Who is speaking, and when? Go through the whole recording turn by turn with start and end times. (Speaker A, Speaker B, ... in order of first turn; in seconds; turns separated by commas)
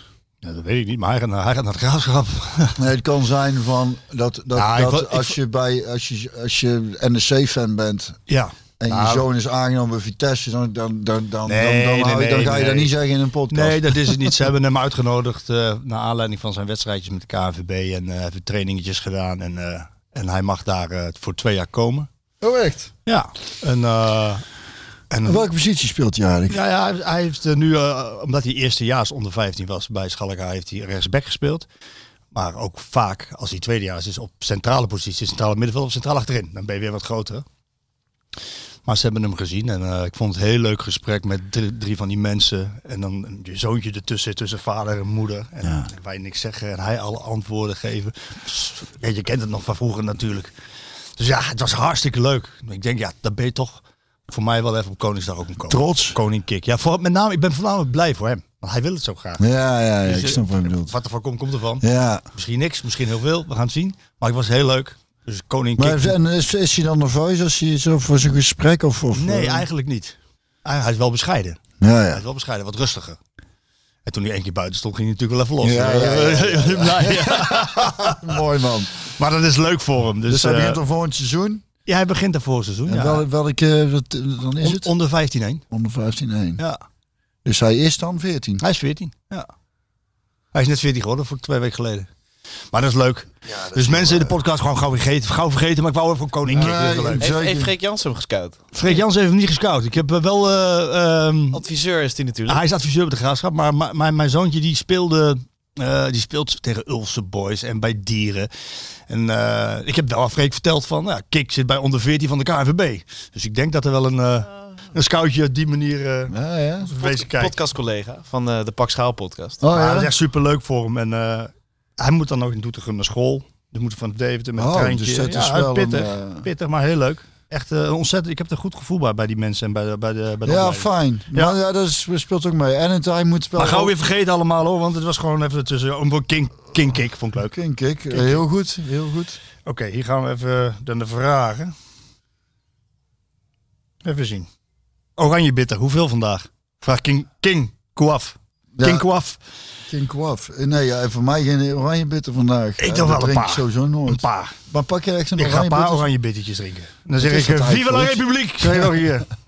Speaker A: 0.4-2.8, Speaker B: 2.8-8.2, Speaker A: 4.5-5.4, Speaker A: 8.3-9.3, Speaker B: 8.8-14.3, Speaker A: 11.5-12.9, Speaker A: 13.5-22.1, Speaker B: 22.4-22.9, Speaker A: 23.1-24.4, Speaker A: 25.1-25.5, Speaker B: 25.2-26.6, Speaker A: 26.5-31.7, Speaker A: 32.3-37.4, Speaker A: 38.9-50.5, Speaker A: 51.2-59.4, Speaker B: 55.7-56.2, Speaker B: 59.4-60.9, Speaker A: 60.0-66.2, Speaker B: 61.8-62.2, Speaker B: 65.8-69.7, Speaker A: 69.1-71.6, Speaker B: 71.8-72.2, Speaker A: 72.1-73.2, Speaker A: 74.0-78.3, Speaker B: 75.6-78.9, Speaker A: 79.1-80.8, Speaker B: 80.3-81.6, Speaker A: 81.9-83.3, Speaker B: 82.9-84.9, Speaker A: 84.6-85.6, Speaker B: 85.7-86.6, Speaker B: 87.5-88.6, Speaker A: 88.6-89.5, Speaker A: 90.5-92.1, Speaker A: 92.7-97.3, Speaker B: 93.5-94.4, Speaker B: 96.5-97.7, Speaker C: 96.6-98.6, Speaker A: 98.7-101.6, Speaker C: 101.5-102.6, Speaker A: 102.5-108.5, Speaker A: 109.1-117.5, Speaker B: 116.3-116.9, Speaker C: 117.0-119.6, Speaker B: 119.6-120.1, Speaker A: 119.7-131.6, Speaker B: 124.6-126.5, Speaker B: 130.4-133.9, Speaker A: 133.6-137.6, Speaker B: 137.4-139.4, Speaker A: 138.1-138.4, Speaker A: 139.7-141.7, Speaker A: 144.0-144.5, Speaker A: 145.2-149.4, Speaker B: 148.8-149.1, Speaker B: 149.9-156.1, Speaker A: 152.8-154.6, Speaker A: 155.4-159.3, Speaker B: 157.2-159.2